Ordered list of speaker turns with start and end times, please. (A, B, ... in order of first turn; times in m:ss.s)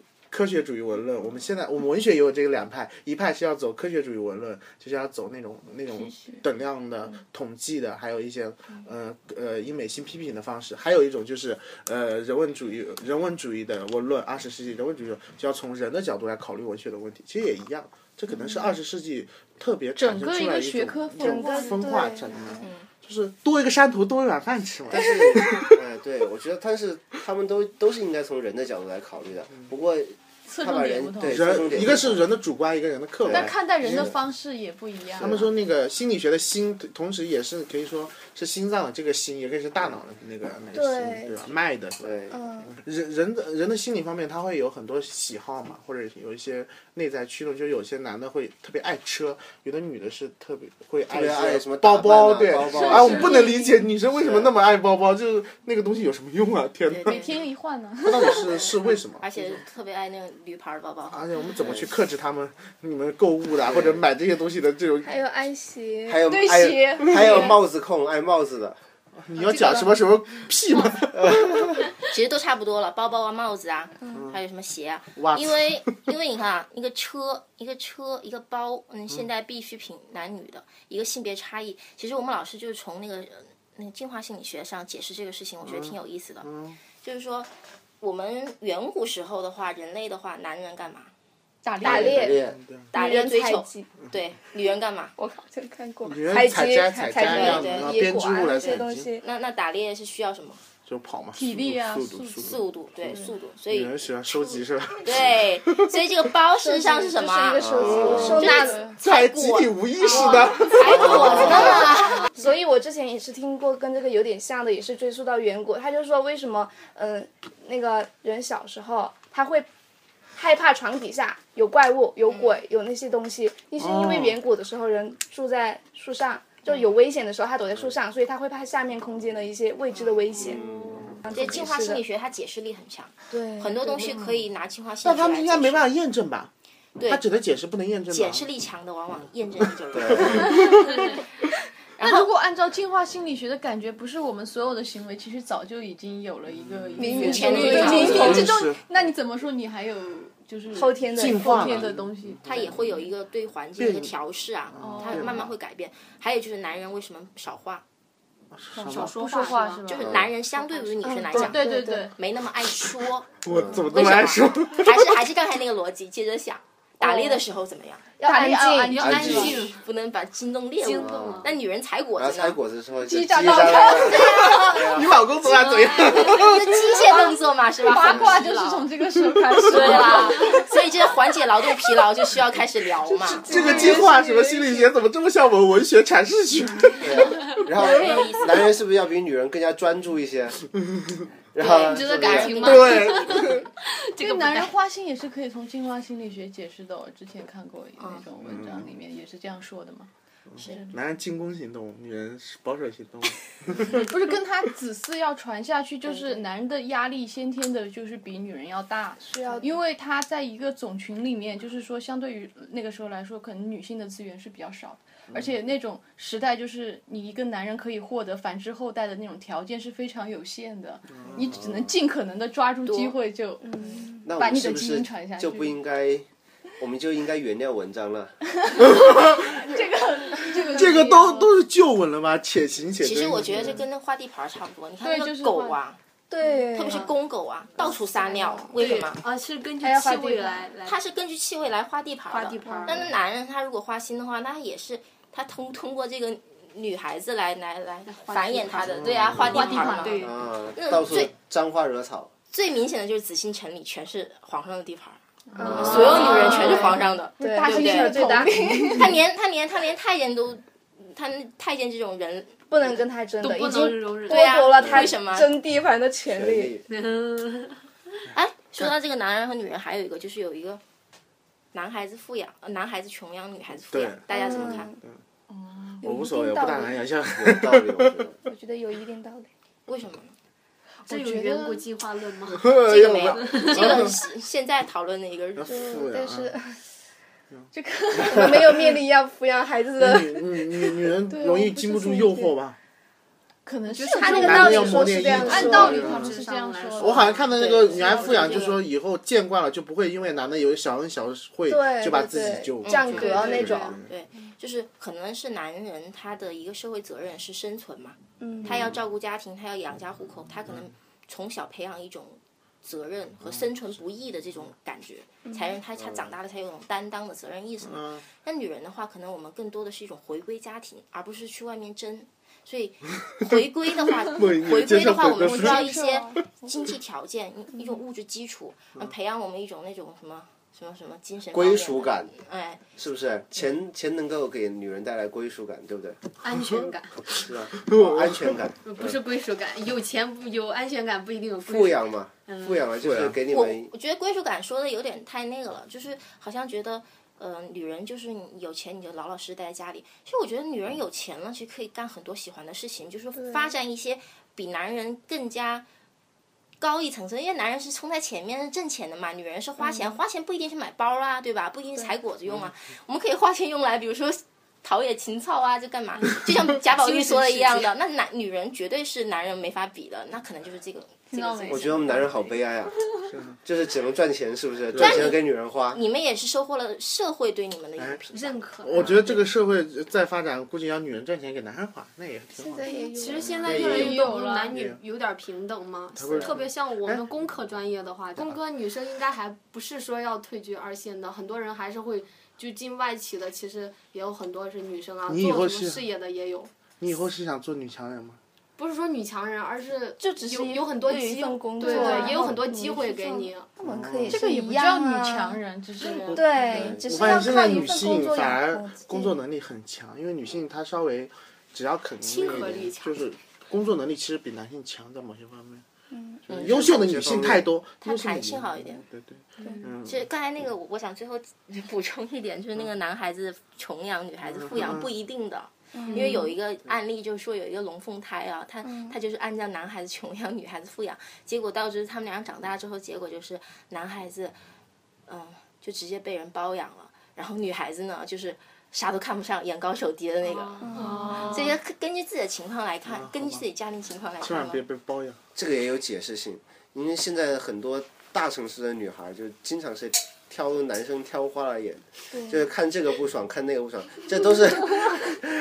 0:00.3-0:25.8 A
0:06.0-0:06.4 B
0:20.0-0:22.0 B
0:21.2-0:22.6 C
0:22.6-0:22.9 D
0:24.9-0:32.3 E
0:30.4-0:31.6 B
0:31.2-0:34.2 A
0:33.2-0:34.2 E
0:33.3-0:35.4 B
0:35.2-0:35.5 E
0:35.2-0:42.2 A
0:40.7-0:41.4 C
0:42.0-0:42.4 E
0:42.3-0:42.7 C
0:42.7-0:57.2 A
0:51.1-0:53.5 E
0:52.8-0:53.7 B
0:54.2-0:54.5 E
0:56.9-0:57.4 D
0:57.0-0:58.6 B
0:58.0-0:59.6 A
0:59.2-1:01.2 D
1:01.1-1:05.1 A
1:01.6-1:01.9 E
1:03.6-1:04.0 E
1:05.0-1:07.6 C
1:06.1-1:08.8 E
1:09.2-1:11.7 A
1:09.4-1:09.9 C
1:11.1-1:11.8 E
1:12.0-1:31.1 D
1:14.1-1:14.4 A
1:15.2-1:15.9 A
1:25.6-1:26.8 A
1:31.6-1:32.3 B
1:31.8-1:32.4 C
1:31.8-1:32.6 E
1:32.3-1:32.9 A
1:32.9-1:35.2 D
1:32.9-1:33.9 C
1:35.2-1:39.2 C
1:36.0-1:39.2 A
1:37.2-1:38.0 D
1:38.6-1:40.6 D
1:40.9-1:43.2 A
1:41.3-1:43.3 B
1:42.4-1:44.1 D
1:43.7-1:46.2 A
1:45.0-1:52.3 D
1:46.6-1:48.8 C
1:47.6-1:48.5 E
1:47.8-1:51.9 A
1:48.4-1:49.0 B
1:50.1-1:50.6 F
1:51.2-1:51.5 E
1:51.3-1:59.7 C
2:00.4-2:10.6 C
2:02.2-2:02.6 D
2:03.8-2:04.4 A
2:10.4-2:10.7 F
2:10.4-2:11.2 E
2:11.2-2:12.0 C
2:11.3-2:15.9 D
2:13.3-2:14.2 C
2:15.0-2:16.5 A
2:17.0-2:17.2 D
2:17.1-2:18.5 A
2:18.1-2:21.2 D
2:19.9-2:20.5 E
2:20.1-2:20.7 A
2:22.0-2:22.3 D
2:22.0-2:33.1 B
2:26.5-2:27.2 A
2:27.0-2:28.6 C
2:27.1-2:28.5 D
2:27.8-2:28.8 A
2:30.7-2:31.8 C
2:31.2-2:32.8 A
2:32.4-2:37.8 D
2:33.8-2:34.2 A
2:34.7-2:35.5 A
2:34.8-2:35.5 B
2:38.5-2:39.2 A
2:38.8-2:40.1 B
2:38.8-2:40.2 F
2:39.9-2:48.1 D
2:40.0-2:40.3 E
2:41.0-2:42.1 C
2:41.3-2:42.1 B
2:43.4-2:45.2 A
2:43.5-2:43.8 E
2:47.1-2:47.4 B
2:48.2-2:49.4 C
2:48.2-2:49.5 B
2:48.8-2:49.8 F
2:49.0-2:49.7 E
2:49.1-2:52.6 D
2:50.8-2:51.5 F
2:50.9-2:51.5 E
2:52.2-2:55.3 E
2:53.0-2:55.0 B
2:54.1-2:57.2 A
2:56.1-2:58.9 D
2:57.8-3:00.7 B
2:58.0-2:58.5 E
2:59.3-2:59.7 A
2:59.6-3:04.0 D
3:03.1-3:04.9 C
3:03.4-3:07.5 A
3:03.6-3:04.0 F
3:07.0-3:10.6 E
3:07.8-3:08.8 D
3:10.9-3:11.3 A
3:11.5-3:12.7 E
3:11.6-3:13.2 D
3:11.7-3:14.7 F
3:12.3-3:13.2 B
3:12.6-3:13.7 A
3:14.2-3:21.0 B
3:18.4-3:18.9 A
3:20.6-3:24.1 A
3:20.6-3:20.8 D
3:23.9-3:45.8 B
3:26.1-3:26.4 C
3:29.2-3:29.8 C
3:35.3-3:35.6 A
3:41.1-3:41.6 A
3:42.9-3:43.2 D
3:43.6-3:44.3 C
3:44.2-3:46.2 E
3:46.8-3:48.4 E
3:48.6-3:51.5 B
3:48.8-3:49.5 A
3:50.7-3:53.8 A
3:53.0-3:56.0 D
3:55.0-3:55.8 B
3:56.3-3:57.1 C
3:56.7-3:59.2 D
3:57.8-3:58.8 C
3:58.8-4:01.0 F
3:59.8-4:00.7 C
4:00.8-4:11.3 D
4:02.3-4:03.1 F
4:02.6-4:03.1 C
4:08.1-4:10.4 F
4:09.0-4:09.4 A
4:09.5-4:10.3 B
4:09.5-4:12.3 E
4:12.5-4:22.7 D
4:15.5-4:19.1 C
4:15.6-4:19.2 B
4:15.6-4:17.0 F
4:15.8-4:16.0 E
4:22.7-4:26.8 C
4:23.4-4:24.7 F
4:24.2-4:25.5 D
4:24.8-4:25.1 E
4:26.3-4:26.8 E
4:26.9-4:27.8 F
4:28.3-4:30.8 D
4:31.7-4:34.9 D
4:33.9-4:35.2 A
4:34.3-4:35.0 C
4:35.5-4:36.0 B
4:36.0-4:38.2 A
4:36.0-4:37.0 C
4:37.3-4:38.4 E
4:38.4-4:39.5 C
4:39.9-4:40.4 D
4:41.0-4:41.9 B
4:41.1-4:42.8 F
4:42.5-4:44.2 A
4:42.8-4:45.9 D
4:43.3-4:44.1 F
4:45.6-4:46.6 A
4:45.6-4:46.8 C
4:47.7-4:49.0 B
4:48.2-4:50.6 C
4:50.0-4:52.8 A
4:51.2-4:52.5 B
4:53.6-4:57.6 B
4:53.9-4:58.5 F
4:54.1-4:56.2 C
4:54.2-4:56.4 A
4:57.0-5:03.9 A
4:57.6-4:58.7 D
4:58.0-4:58.7 C
4:58.2-4:58.6 B
5:01.7-5:04.0 C
5:02.8-5:32.8 D
5:03.1-5:04.0 F
5:08.4-5:09.0 C
5:15.5-5:15.8 C
5:16.0-5:16.3 E
5:17.8-5:18.2 A
5:24.2-5:26.0 A
5:25.3-5:26.3 B
5:26.0-5:26.4 C
5:31.5-5:32.4 E
5:33.0-5:36.3 E
5:36.4-5:37.5 F
5:36.5-5:38.7 A
5:37.4-5:39.2 E
5:38.8-5:43.0 F
5:41.6-5:43.9 E
5:43.0-5:43.4 A
5:43.5-5:55.9 D
5:53.4-5:53.7 C
5:56.8-6:12.1 D
5:59.9-6:00.2 C
6:07.1-6:07.6 B
6:11.3-6:12.6 B
6:11.7-6:13.0 E
6:13.3-6:13.6 A
6:13.6-6:16.0 E
6:14.9-6:15.3 A
6:15.0-6:19.4 D
6:18.3-6:19.4 F
6:18.8-6:22.9 A
6:22.6-6:24.2 C
6:22.9-6:36.7 F
6:23.4-6:25.0 A
6:23.8-6:24.8 B
6:26.2-6:26.7 A
6:35.3-6:36.1 A
6:37.0-6:38.4 A
6:38.8-6:43.7 F
6:40.2-6:45.6 C
6:41.8-6:42.4 B
6:43.8-6:44.4 A
6:44.3-6:46.8 B
6:46.0-6:47.0 D
6:46.3-6:49.4 C
6:46.3-6:55.8 A
6:52.2-6:53.3 F
6:56.1-6:56.5 C
6:56.5-7:00.2 A
6:56.5-6:57.3 D
6:56.7-6:57.7 E
6:58.0-6:59.0 D
6:59.6-6:59.9 F
7:00.0-7:14.6 D
7:04.4-7:05.1 A
7:05.9-7:06.5 C
7:08.8-7:09.2 C
7:15.3-7:24.8 D
7:20.4-7:21.8 F
7:20.8-7:21.6 C
7:23.1-7:23.6 A
7:24.4-7:25.4 A
7:25.6-7:35.4 E
7:32.3-7:32.7 C